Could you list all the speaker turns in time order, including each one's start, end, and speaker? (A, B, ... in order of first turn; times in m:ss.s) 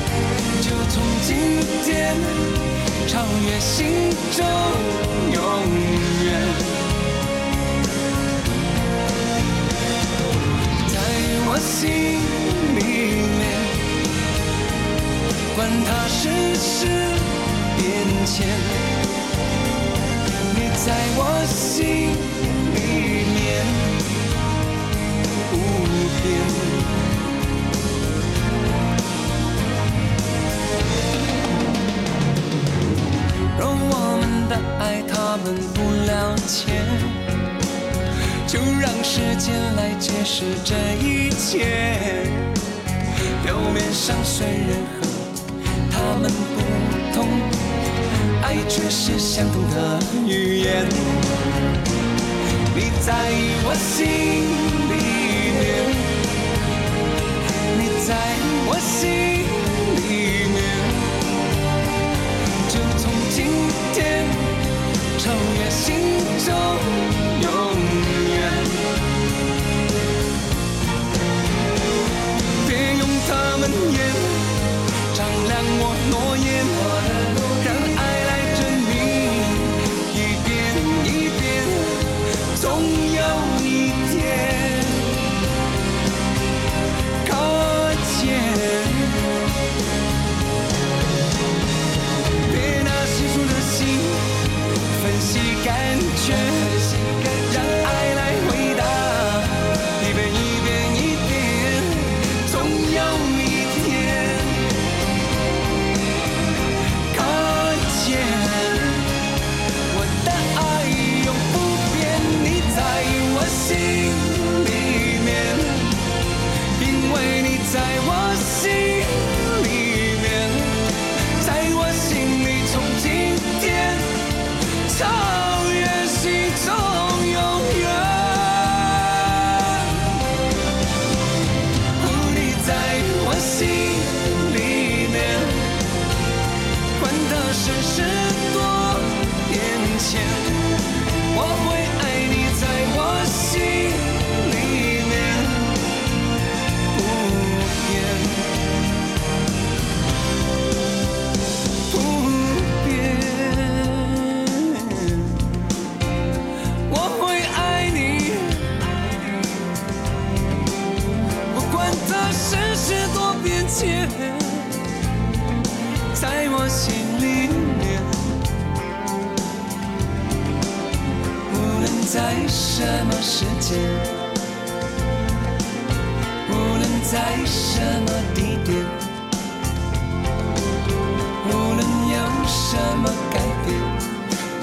0:00.6-0:07.0 A
0:10.8-0:14.0 A
0:15.5-0:19.0 A
0:20.5-0:24.1 A
0:25.5-0:27.2 A
0:33.5-0:37.3 A
0:38.4-0:42.5 A
0:43.4-0:47.7 A
0:48.4-0:51.4 A
0:52.7-0:56.3 A
0:57.7-1:01.4 A
1:02.6-1:09.0 A
1:12.5-1:25.3 A
1:27.2-1:29.3 A
1:32.4-1:44.8 A
1:47.1-1:49.3 A
1:49.9-1:56.2 A
1:56.7-2:10.2 A
2:12.0-2:15.8 A
2:17.0-2:25.9 A
2:26.9-2:28.6 A
2:31.9-2:35.5 A
2:36.8-2:39.4 A
2:41.5-2:44.9 A
2:46.1-2:48.3 A
2:51.5-2:54.1 A
2:56.5-2:59.1 A
3:01.4-3:04.0 A